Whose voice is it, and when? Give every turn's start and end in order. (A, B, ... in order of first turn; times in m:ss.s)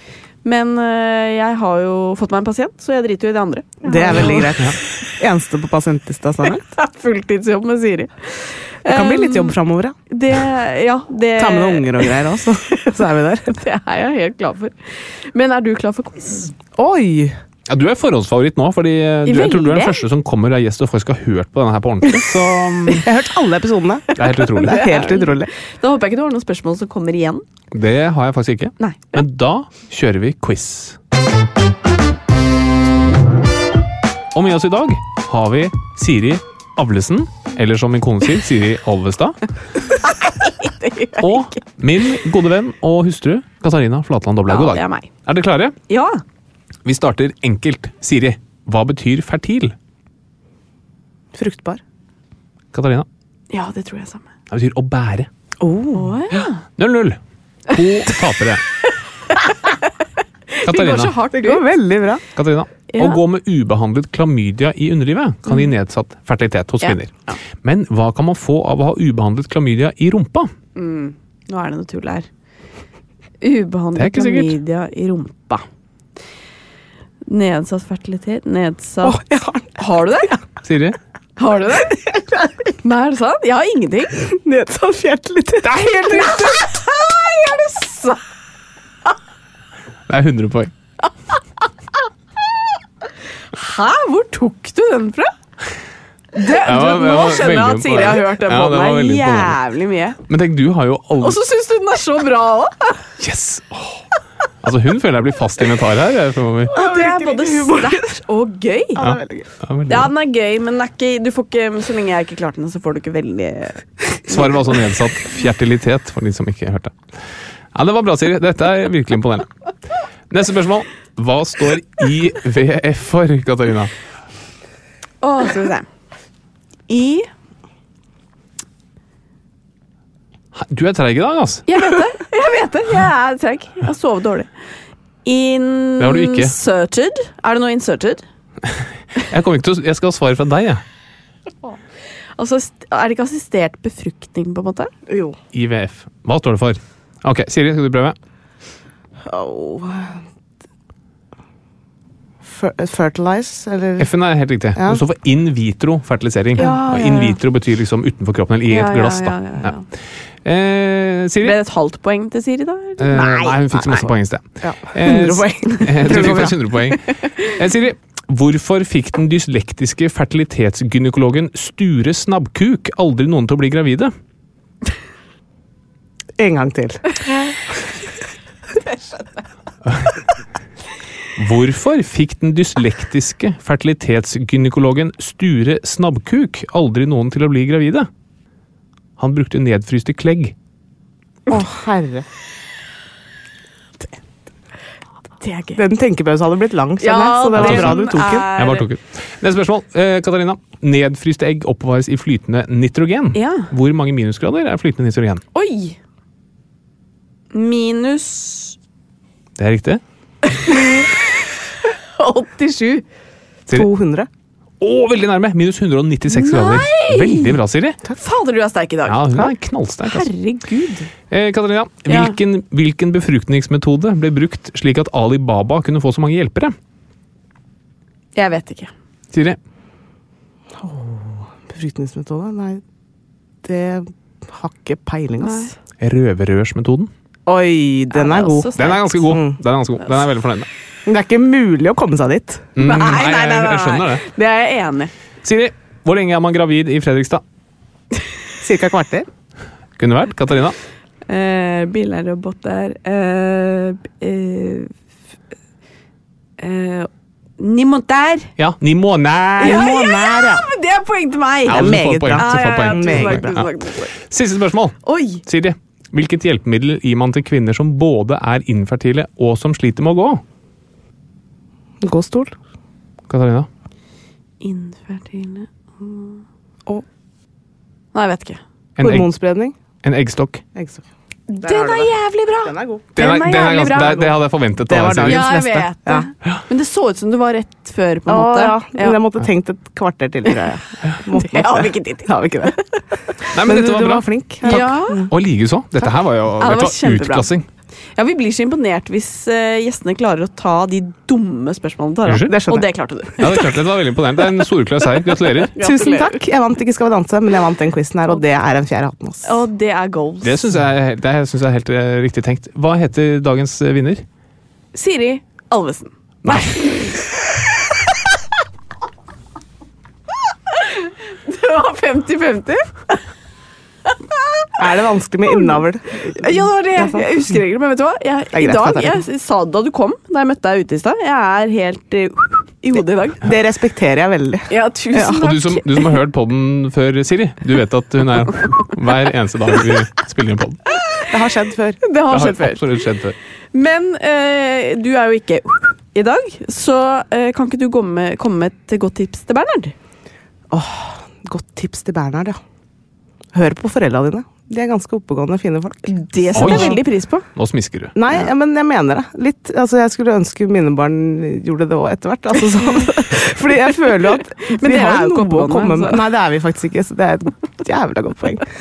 0:00.4-0:04.7 A
0:03.8-0:06.6 B
0:04.2-0:04.8 C
0:06.4-0:09.5 A
0:08.8-0:10.0 B
0:10.1-0:12.2 A
0:11.4-0:13.6 B
0:13.5-0:16.5 A
0:16.8-0:17.4 B
0:17.7-0:23.0 C
0:19.2-0:20.0 A
0:22.0-0:22.4 B
0:23.0-0:24.0 B
0:24.1-0:27.4 A
0:24.2-0:24.9 C
0:24.6-0:25.5 B
0:27.7-0:31.0 C
0:28.8-0:29.2 A
0:34.3-0:39.4 C
0:40.0-0:41.6 A
0:41.2-0:45.8 C
0:44.5-0:45.1 A
0:45.9-0:46.2 A
0:46.8-0:49.7 C
0:51.3-0:51.8 B
0:52.7-0:53.1 C
0:53.5-0:54.3 A
0:54.5-0:55.3 C
0:55.6-0:56.2 B
0:55.9-0:56.6 A
0:56.8-0:58.6 C
1:00.5-1:01.7 A
1:00.6-1:01.2 C
1:01.3-1:02.2 B
1:02.3-1:10.5 C
1:02.9-1:03.2 A
1:06.8-1:07.4 A
1:10.7-1:12.3 A
1:13.4-1:15.6 A
1:13.9-1:14.6 C
1:17.3-1:19.2 A
1:19.0-1:20.4 B
1:19.8-1:20.3 A
1:20.6-1:21.0 C
1:21.4-1:22.2 A
1:22.8-1:24.2 A
1:24.3-1:25.8 B
1:25.6-1:28.2 A
1:30.1-1:30.7 C
1:33.5-1:35.3 A
1:36.3-1:40.2 A
1:36.6-1:39.6 C
1:40.3-1:41.4 C
1:41.2-1:43.1 A
1:43.2-1:44.0 C
1:44.6-1:46.7 C
1:46.7-1:49.0 A
1:46.7-1:48.1 B
1:48.9-1:49.5 B
1:49.0-1:50.1 C
1:49.9-1:54.6 A
1:54.3-1:57.0 C
1:57.7-1:59.5 C
2:00.3-2:03.9 C
2:05.2-2:05.9 A
2:06.9-2:07.3 A
2:10.5-2:11.7 C
2:11.7-2:14.5 A
2:15.2-2:18.2 A
2:16.0-2:16.5 C
2:18.7-2:20.8 C
2:22.4-2:24.9 A
2:25.1-2:25.4 B
2:25.5-2:28.2 C
2:29.2-2:30.2 B
2:32.4-2:34.1 B
2:34.0-2:39.7 C
2:34.7-2:35.0 B
2:36.6-2:37.3 A
2:36.6-2:37.1 B
2:38.7-2:39.8 A
2:40.4-2:41.6 C
2:41.4-2:44.0 A
2:43.0-2:54.1 C
2:44.6-2:46.6 B
2:56.4-2:57.0 B
2:58.8-2:59.2 A
3:01.4-3:08.1 C
3:09.2-3:10.5 C
3:11.5-3:12.2 B
3:15.4-3:15.8 A
3:15.8-3:18.5 B
3:17.0-3:18.9 A
3:17.6-3:25.4 C
3:23.3-3:23.7 A
3:25.5-3:26.0 A
3:27.5-3:28.8 A
3:29.6-3:30.0 C
3:30.4-3:31.2 A
3:32.2-3:33.0 A
3:33.7-3:34.3 B
3:34.8-3:38.0 C
3:36.3-3:37.6 A
3:38.2-3:39.4 A
3:39.0-3:40.3 C
3:40.0-3:41.1 A
3:41.3-3:46.8 C
3:42.1-3:42.4 A
3:48.3-3:48.9 A
3:49.3-3:49.6 C
3:50.8-3:52.8 B
3:53.6-3:55.7 B
3:55.4-3:55.7 A
3:56.0-3:57.1 C
3:57.4-3:59.6 B
3:58.1-3:59.2 A
3:58.7-4:00.7 C
4:01.0-4:02.8 B
4:02.8-4:04.2 C
4:02.8-4:05.1 A
4:05.4-4:07.4 C
4:08.6-4:09.3 B
4:10.0-4:10.8 C
4:11.3-4:14.9 A
4:16.6-4:18.5 A
4:18.6-4:19.9 C
4:19.6-4:20.6 B
4:19.6-4:24.1 A
4:21.7-4:23.6 B
4:21.7-4:23.7 C
4:24.2-4:30.4 C
4:25.0-4:25.4 A
4:32.0-4:32.5 B
4:33.3-4:33.7 C
4:34.6-4:36.4 A
4:38.1-4:38.6 A
4:39.0-4:39.3 C
4:39.0-4:39.7 B
4:40.0-4:40.6 C
4:40.7-4:41.0 B
4:41.5-4:44.3 A
4:41.6-4:43.1 B
4:43.2-4:45.5 C
4:44.0-4:44.3 B
4:44.9-4:46.3 B
4:45.2-4:49.2 A
4:48.3-4:52.7 B
4:50.4-4:50.7 A
4:51.3-4:52.8 A
4:53.5-4:57.7 C
4:53.6-4:55.3 B
4:54.6-4:55.3 A
4:56.6-4:57.5 A
4:58.1-5:06.4 A
5:02.2-5:02.5 C
5:02.5-5:02.9 B
5:03.4-5:05.7 C
5:05.8-5:09.6 B
5:09.4-5:10.7 A
5:10.4-5:14.2 C
5:14.9-5:16.1 A
5:16.4-5:16.7 C
5:16.6-5:17.1 A
5:21.4-5:23.2 A
5:24.8-5:26.0 B
5:25.5-5:25.8 A
5:26.3-5:33.5 A
5:27.0-5:27.3 B
5:28.5-5:29.2 B
5:33.4-5:35.4 B
5:34.7-5:36.2 A
5:35.3-5:40.8 C
5:41.3-5:42.0 B
5:42.0-5:42.8 A
5:42.3-5:43.3 C
5:43.7-5:49.9 A
5:50.7-5:52.6 B
5:53.5-5:57.0 B
5:56.0-5:57.5 A
5:56.5-5:57.0 C
5:57.5-5:58.1 C
5:58.1-6:08.7 B
6:04.3-6:06.3 A